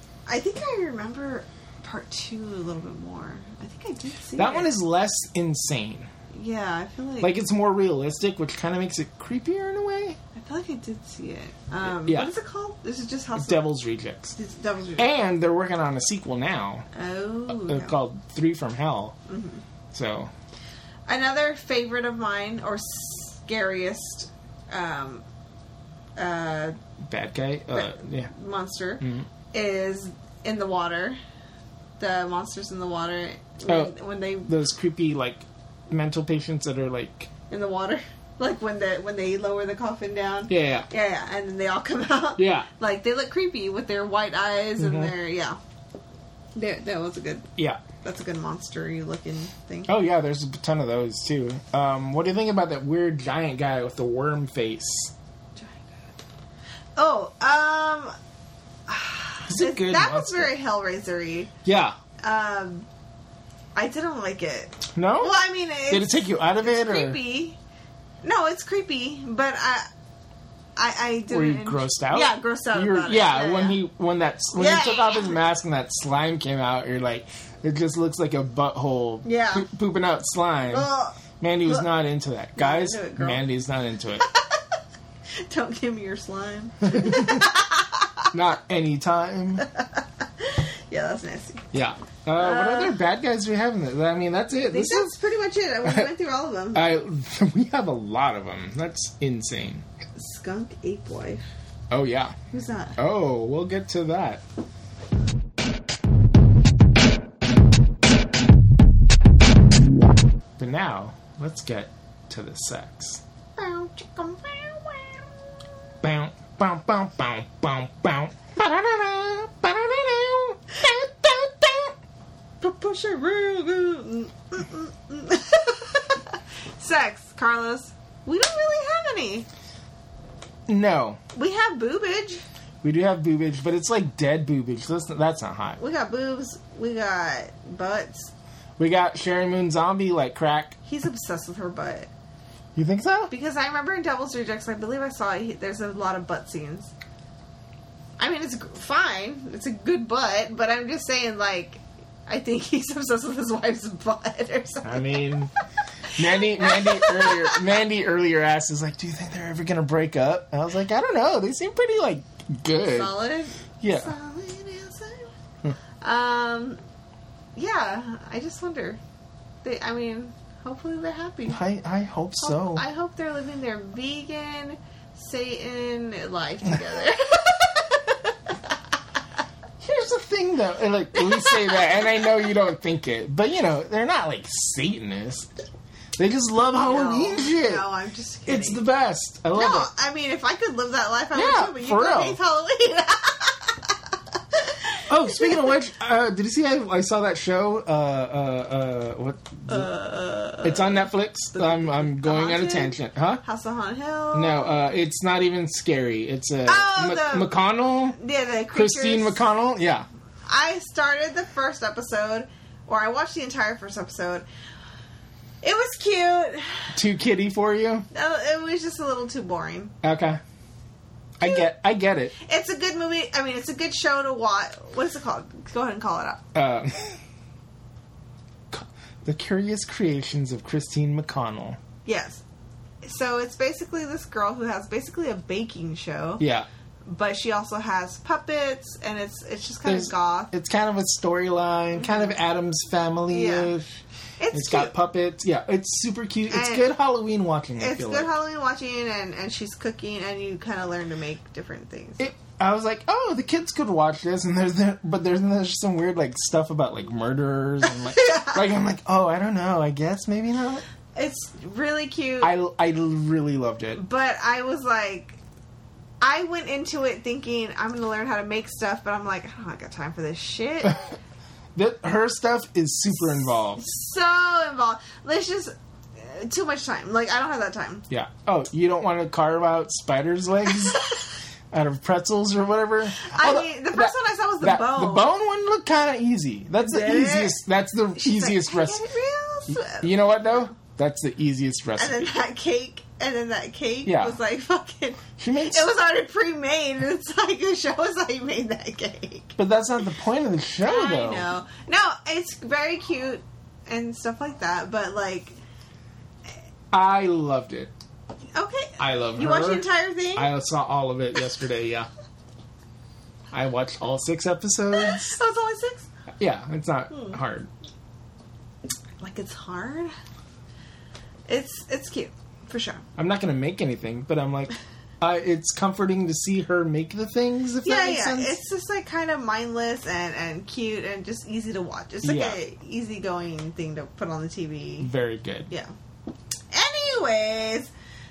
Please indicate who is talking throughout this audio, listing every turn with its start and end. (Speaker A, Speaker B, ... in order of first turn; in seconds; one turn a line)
Speaker A: 0.3-4.7
Speaker B: 4.3-6.1
Speaker A: 6.3-7.3
Speaker B: 7.2-10.2
Speaker A: 10.3-13.7
Speaker B: 11.8-12.3
Speaker B: 13.3-14.3
Speaker A: 14.4-15.1
Speaker B: 15.0-16.9
Speaker A: 16.9-17.9
Speaker B: 17.5-19.1
Speaker A: 19.3-19.6
Speaker B: 19.9-20.3
Speaker A: 21.1-25.2
Speaker A: 26.1-26.8
Speaker B: 27.0-28.3
Speaker A: 27.7-31.2
Speaker B: 29.0-29.3
Speaker A: 32.0-34.5
Speaker B: 33.7-33.9
Speaker B: 34.5-37.3
Speaker A: 37.5-45.6
Speaker B: 40.5-40.9
Speaker B: 42.4-42.7
Speaker B: 44.8-45.1
Speaker A: 46.5-47.5
Speaker A: 48.0-49.9
Speaker B: 49.9-55.1
Speaker A: 55.6-55.9
Speaker A: 57.0-58.1
Speaker A: 58.9-61.5
Speaker B: 59.5-60.5
Speaker B: 61.6-62.0
Speaker A: 62.2-62.9
Speaker A: 63.7-67.6
Speaker B: 64.9-67.2
Speaker A: 68.2-69.9
Speaker A: 70.8-73.8
Speaker B: 71.3-84.2
Speaker A: 74.5-75.4
Speaker A: 79.2-79.7
Speaker A: 80.7-81.9
Speaker A: 82.5-83.4
Speaker A: 84.2-84.7
Speaker A: 85.4-88.3
Speaker B: 86.8-87.5
Speaker B: 88.3-89.7
Speaker A: 89.6-91.7
Speaker B: 91.7-95.1
Speaker A: 92.4-93.0
Speaker A: 94.6-96.9
Speaker B: 95.8-96.1
Speaker B: 96.7-99.8
Speaker A: 100.2-101.5
Speaker B: 101.9-102.3
Speaker A: 102.5-103.0
Speaker B: 103.0-104.4
Speaker B: 110.6-113.2
Speaker A: 113.6-115.3
Speaker B: 116.0-121.9
Speaker A: 122.6-129.5
Speaker B: 130.7-131.2
Speaker A: 131.3-132.4
Speaker B: 132.8-135.8
Speaker A: 135.8-138.3
Speaker B: 138.8-140.8
Speaker A: 140.8-142.1
Speaker B: 142.8-143.3
Speaker A: 143.3-146.9
Speaker A: 148.2-155.2
Speaker B: 154.8-155.5
Speaker A: 156.1-157.6
Speaker B: 156.1-163.1
Speaker A: 162.8-165.3
Speaker B: 163.8-164.1
Speaker A: 166.0-166.8
Speaker A: 167.6-169.0
Speaker A: 169.6-171.6
Speaker B: 171.5-172.8
Speaker A: 172.4-178.8
Speaker B: 179.8-185.5
Speaker A: 181.1-182.4
Speaker B: 186.2-187.8
Speaker A: 186.8-188.8
Speaker B: 188.5-189.9
Speaker A: 189.5-193.9
Speaker B: 191.3-192.4
Speaker A: 194.5-195.7
Speaker B: 195.1-199.9
Speaker A: 199.7-204.8
Speaker B: 200.6-203.4
Speaker B: 204.3-208.2
Speaker A: 206.7-207.5
Speaker A: 208.1-209.4
Speaker B: 208.7-210.1
Speaker A: 210.5-214.4
Speaker A: 215.6-217.0
Speaker B: 216.9-218.1
Speaker A: 218.1-219.9
Speaker B: 220.0-220.4
Speaker B: 221.4-222.3
Speaker A: 221.4-221.7
Speaker A: 222.4-226.4
Speaker B: 226.5-227.2
Speaker B: 228.7-231.8
Speaker A: 232.0-232.4
Speaker A: 233.0-236.4
Speaker B: 236.4-236.7
Speaker A: 237.1-240.5
Speaker B: 239.8-248.3
Speaker A: 241.9-242.3
Speaker A: 243.3-243.7
Speaker A: 244.4-244.9
Speaker A: 246.5-246.8
Speaker A: 247.8-252.3
Speaker B: 252.2-260.8
Speaker A: 258.1-258.5
Speaker A: 261.1-262.5
Speaker B: 262.4-264.0
Speaker A: 263.9-265.4
Speaker A: 266.2-271.1
Speaker B: 271.7-273.8
Speaker A: 273.7-278.0
Speaker B: 278.1-281.1
Speaker B: 281.7-289.0
Speaker A: 283.2-285.3
Speaker A: 286.8-287.6
Speaker A: 288.1-290.6
Speaker B: 289.7-292.3
Speaker A: 292.0-299.6
Speaker B: 294.0-294.4
Speaker B: 295.4-295.9
Speaker B: 299.6-301.5
Speaker A: 300.8-305.6
Speaker B: 306.9-307.9
Speaker A: 308.5-310.5
Speaker B: 309.0-312.1
Speaker B: 313.5-315.4
Speaker A: 314.9-316.1
Speaker B: 316.4-317.7
Speaker A: 319.2-320.1
Speaker A: 321.5-323.0
Speaker B: 323.2-328.6
Speaker A: 327.8-335.1
Speaker B: 332.2-332.6
Speaker B: 335.0-335.7
Speaker A: 336.7-337.9